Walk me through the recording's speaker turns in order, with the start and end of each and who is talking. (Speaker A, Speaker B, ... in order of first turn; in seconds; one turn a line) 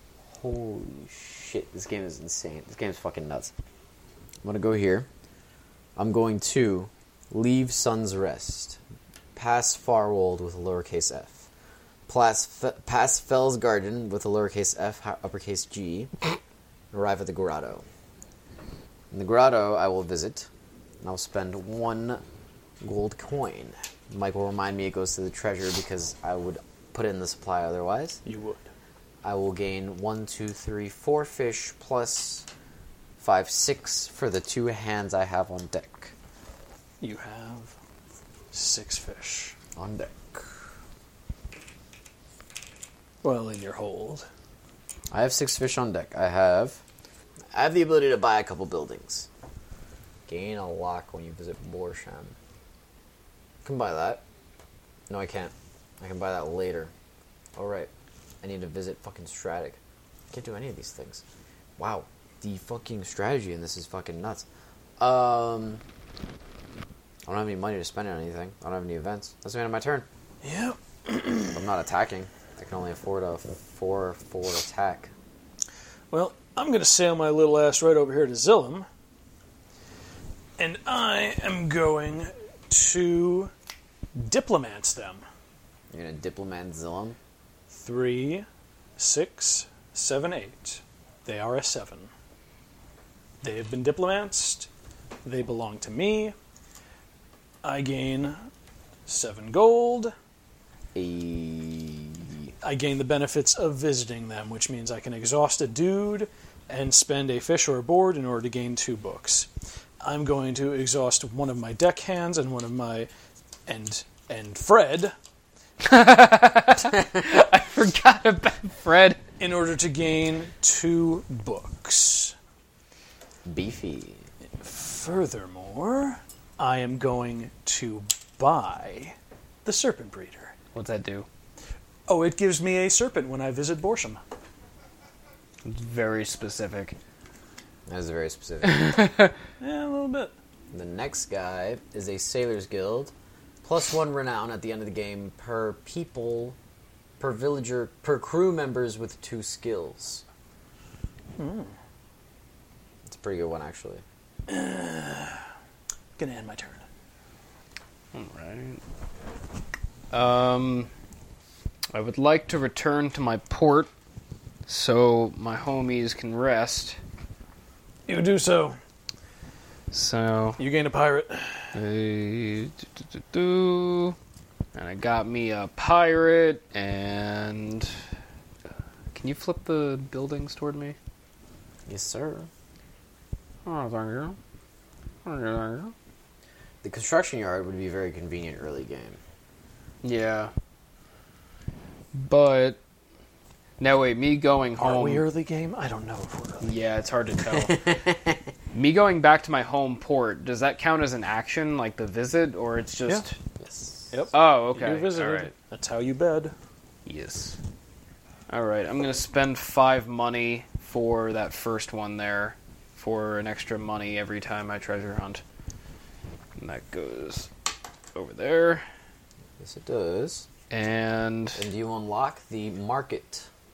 Speaker A: 0.3-3.5
Speaker A: 4.4-5.1
Speaker A: 6.0-8.8
Speaker A: 9.4-11.5
Speaker A: 12.1-16.1
Speaker A: 16.9-17.9
Speaker A: 19.1-20.5
Speaker A: 21.0-22.2
Speaker A: 22.8-28.2
Speaker B: 28.2-28.6
Speaker A: 29.2-32.5
Speaker A: 33.2-36.1
Speaker B: 37.0-37.7
Speaker B: 38.5-39.5
Speaker A: 39.8-40.5
Speaker B: 43.2-44.3
Speaker A: 45.1-46.8
Speaker A: 47.5-49.3
Speaker A: 50.3-52.4
Speaker A: 53.6-54.2
Speaker A: 55.1-56.9
Speaker A: 57.6-57.9
Speaker A: 58.4-59.8
Speaker A: 60.3-61.2
Speaker A: 61.8-64.5
Speaker A: 65.0-65.8
Speaker A: 67.3-70.1
Speaker B: 70.4-71.7
Speaker A: 71.5-75.1
Speaker B: 76.1-78.9
Speaker B: 80.6-83.5
Speaker B: 84.2-85.2
Speaker A: 85.9-87.2
Speaker B: 87.7-88.5
Speaker B: 89.0-92.1
Speaker B: 93.4-94.7
Speaker B: 95.2-96.3
Speaker B: 97.6-98.4
Speaker B: 99.1-100.1
Speaker A: 101.0-102.5
Speaker B: 102.6-109.5
Speaker B: 110.0-113.1
Speaker B: 113.7-115.1
Speaker C: 115.8-119.2
Speaker B: 119.4-122.3
Speaker A: 123.5-124.3
Speaker B: 124.6-129.1
Speaker B: 129.7-130.5
Speaker C: 130.7-131.3
Speaker B: 132.1-134.2
Speaker C: 135.7-137.0
Speaker A: 137.9-138.9
Speaker C: 138.6-139.3
Speaker B: 139.6-140.3
Speaker A: 140.7-143.1
Speaker A: 143.6-146.6
Speaker A: 147.2-150.2
Speaker B: 151.4-151.7
Speaker A: 153.1-154.0
Speaker B: 154.5-155.4
Speaker B: 156.2-156.8
Speaker C: 158.1-158.8
Speaker C: 160.1-160.9
Speaker C: 161.9-163.9
Speaker C: 164.7-167.0
Speaker B: 168.1-168.8
Speaker C: 169.9-170.6
Speaker B: 170.6-171.7
Speaker C: 171.7-174.2
Speaker C: 174.8-177.9
Speaker C: 179.1-181.0
Speaker A: 181.9-182.5
Speaker C: 183.7-184.4
Speaker C: 185.2-185.9
Speaker A: 186.8-189.2
Speaker C: 190.0-190.5
Speaker C: 192.1-192.8
Speaker C: 193.8-195.2
Speaker B: 194.8-196.8
Speaker C: 196.6-198.0
Speaker A: 197.5-198.4
Speaker C: 198.7-203.4
Speaker A: 203.6-204.2
Speaker B: 204.1-206.5
Speaker C: 204.3-205.5
Speaker C: 207.1-207.6
Speaker C: 208.5-215.4
Speaker C: 216.6-217.5
Speaker C: 218.2-218.8
Speaker A: 219.6-220.5
Speaker C: 220.7-221.7
Speaker A: 221.6-223.5